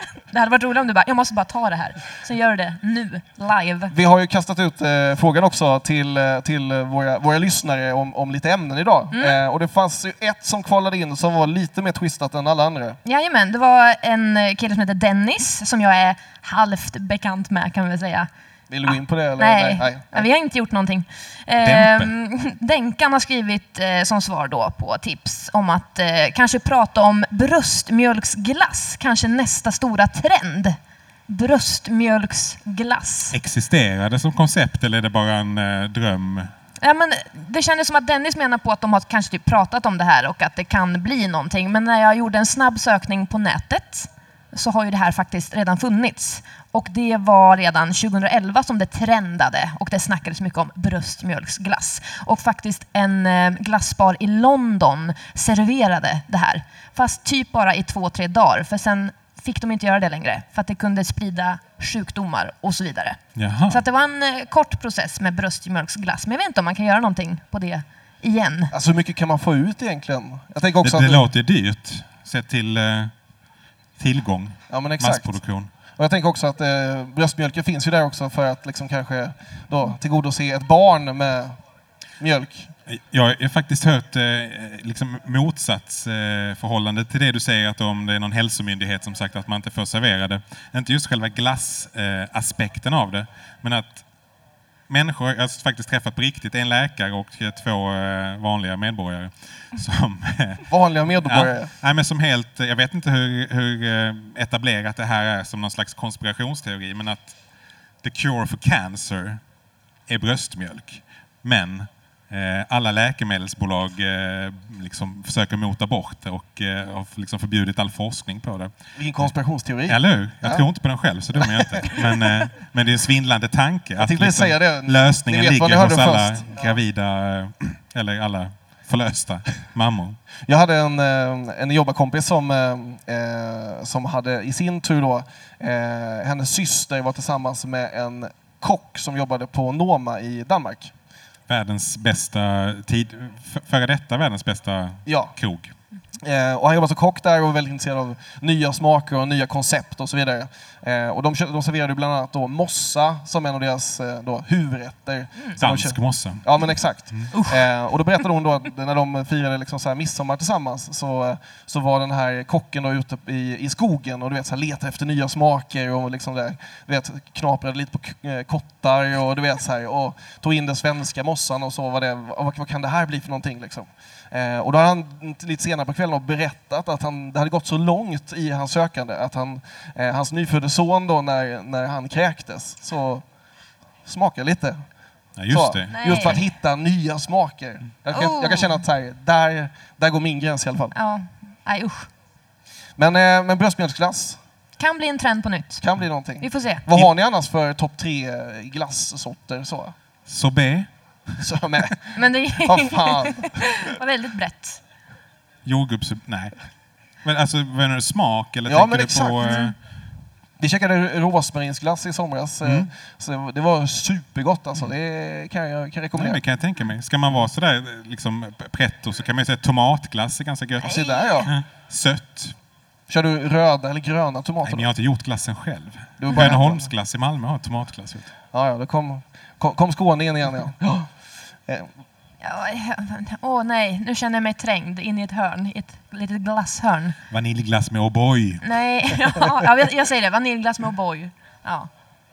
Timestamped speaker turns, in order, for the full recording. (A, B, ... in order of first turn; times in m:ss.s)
0:00.3-0:04.0 A
0:03.9-0:13.0 B
0:09.1-0:09.4 A
0:13.0-0:18.3 A
0:18.7-0:20.3 B
0:18.9-0:30.8 A
0:21.6-0:22.1 C
0:31.3-0:33.4 A
0:33.3-0:36.5 C
0:36.8-1:08.7 A
1:03.4-1:03.8 C
1:08.7-1:11.3 B
1:10.8-1:13.1 C
1:14.0-1:15.7 C
1:14.7-1:15.4 B
1:16.0-1:21.6 B
1:22.2-1:22.7 B
1:22.9-1:34.0 C
1:34.9-1:47.4 C
1:40.7-1:41.7 B
1:48.0-1:49.4 C
1:50.1-1:59.3 C
1:59.0-2:00.7 B
1:59.9-2:10.2 C
2:01.4-2:02.0 B
2:04.0-2:06.7 B
2:10.5-2:20.9 B
2:21.5-2:25.7 C
2:25.1-2:25.4 B
2:26.2-3:03.2 B
2:35.6-2:36.4 C
2:37.3-2:37.6 A
3:04.0-3:04.8 B
3:05.4-3:06.4 C
3:05.5-3:10.9 B
3:05.9-3:06.4 A
3:08.1-3:08.8 A
3:10.9-3:12.1 A
3:13.0-3:14.4 B
3:14.8-3:15.8 A
3:15.8-3:19.9 B
3:16.4-3:16.9 A
3:20.3-3:20.9 C
3:21.4-3:23.6 B
3:22.2-3:24.8 A
3:25.6-3:26.6 C
3:27.2-3:29.8 C
3:28.7-3:29.6 B
3:29.4-3:29.7 A
3:30.6-3:36.4 B
3:32.6-3:32.9 C
3:36.2-3:42.6 C
3:40.8-3:41.5 A
3:40.8-3:41.5 B
3:43.1-3:44.9 B
3:44.6-3:48.3 C
3:46.2-3:46.9 B
3:48.5-3:51.1 B
3:52.4-3:57.2 A
3:57.3-3:58.6 C
3:58.6-4:01.9 A